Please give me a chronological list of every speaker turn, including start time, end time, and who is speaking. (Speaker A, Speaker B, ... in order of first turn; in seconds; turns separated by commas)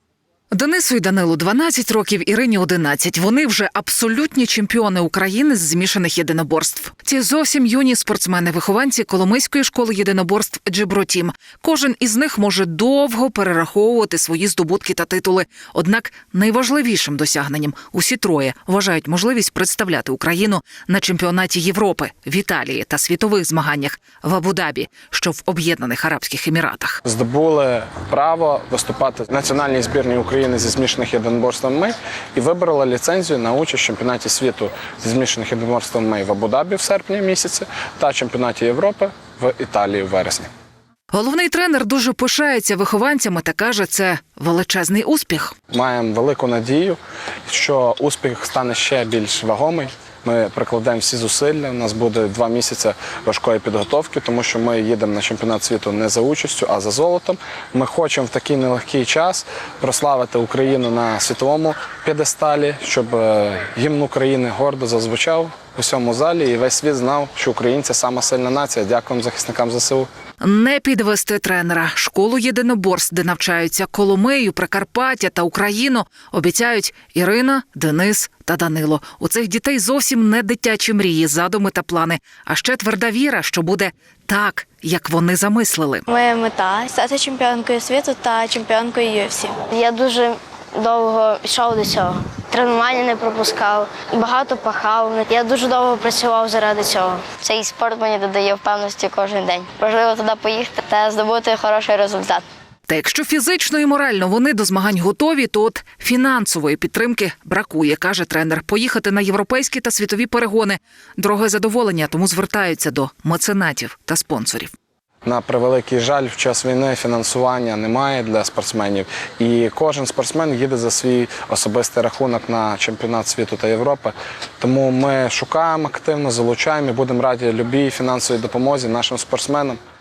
Speaker A: 0.5-27.0, Speaker B: 27.0-40.5, Speaker A: 41.1-45.5, Speaker B: 45.7-70.1, Speaker A: 70.4-86.1, Speaker C: 86.1-89.6, Speaker D: 89.5-102.4, Speaker A: 102.9-114.7, Speaker B: 115.2-129.8